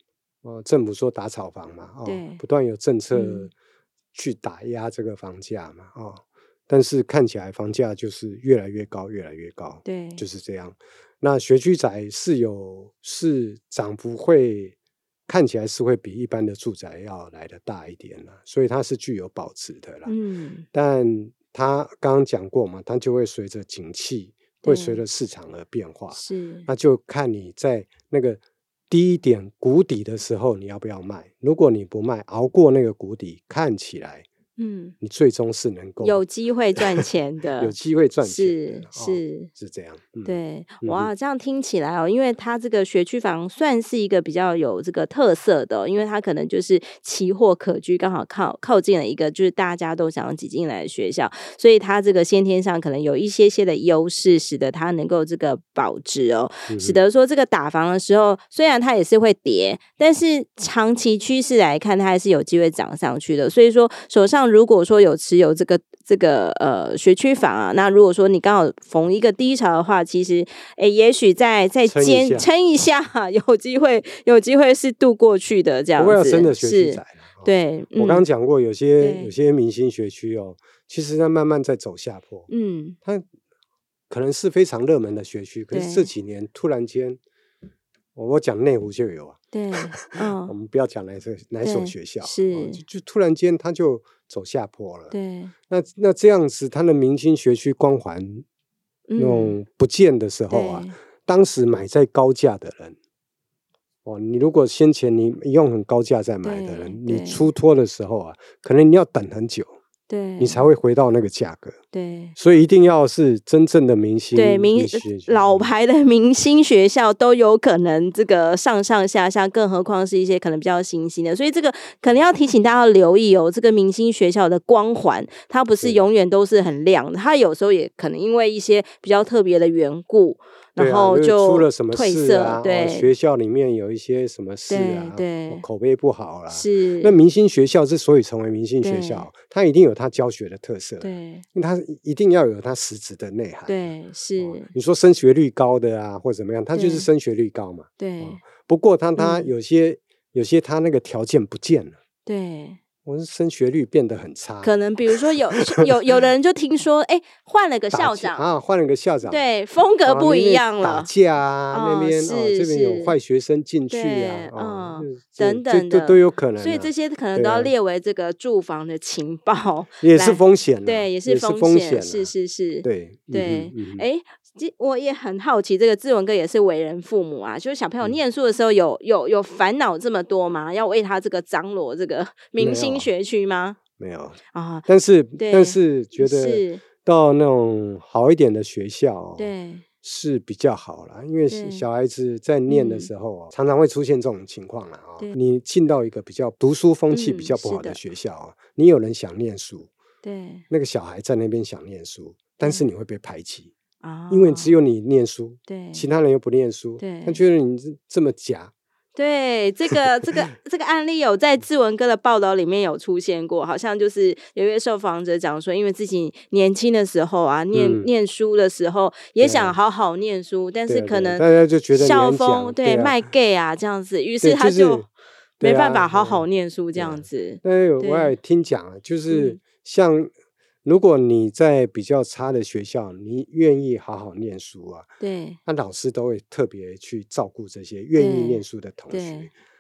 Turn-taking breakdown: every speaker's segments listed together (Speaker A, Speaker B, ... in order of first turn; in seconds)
Speaker A: 0.4-3.5, 4.1-14.7, 15.3-20.1, 20.7-34.3, 35.0-36.2, 37.6-41.1, 56.7-57.0, 71.9-72.5, 76.0-82.5, 84.1-87.2, 88.1-95.1, 95.7-98.4, 99.2-103.0, 104.0-109.8, 110.4-111.8, 112.4-115.7, 130.8-152.0, 153.0-155.6, 157.9-159.4, 160.0-167.7, 170.0-172.3, 172.8-174.0, 182.6-183.1, 184.0-189.5, 190.0-199.9, 200.7-203.7, 204.3-208.7, 209.9-210.5, 217.7-218.1, 219.4-219.8, 220.9-223.2, 224.4-225.1, 225.6-230.3, 230.8-235.1, 235.7-239.5
Speaker B: 2.0-2.4, 3.1-3.5, 9.8-10.2, 20.1-20.6, 24.6-25.0, 26.1-26.7, 34.6-34.9, 36.0-39.5, 40.2-78.2, 79.0-79.3, 82.5-83.0, 85.7-86.1, 89.5-90.5, 91.6-92.8, 95.1-95.5, 99.1-99.6, 100.5-100.9, 106.4-107.5, 110.1-110.7, 111.9-112.4, 114.3-133.1, 134.7-135.6, 136.5-137.1, 138.8-139.3, 141.0-141.4, 143.7-144.7, 146.7-147.1, 148.0-148.4, 149.2-149.5, 152.2-152.8, 154.6-158.4, 159.2-161.1, 161.7-163.2, 163.9-183.8, 184.5-184.9, 185.4-186.8, 189.4-189.8, 191.5-191.8, 192.7-193.1, 197.1-198.0, 200.2-200.6, 204.0-204.7, 205.7-206.1, 207.0-207.4, 209.1-225.1, 225.6-228.3, 229.3-229.6, 235.2-235.6, 238.2-239.5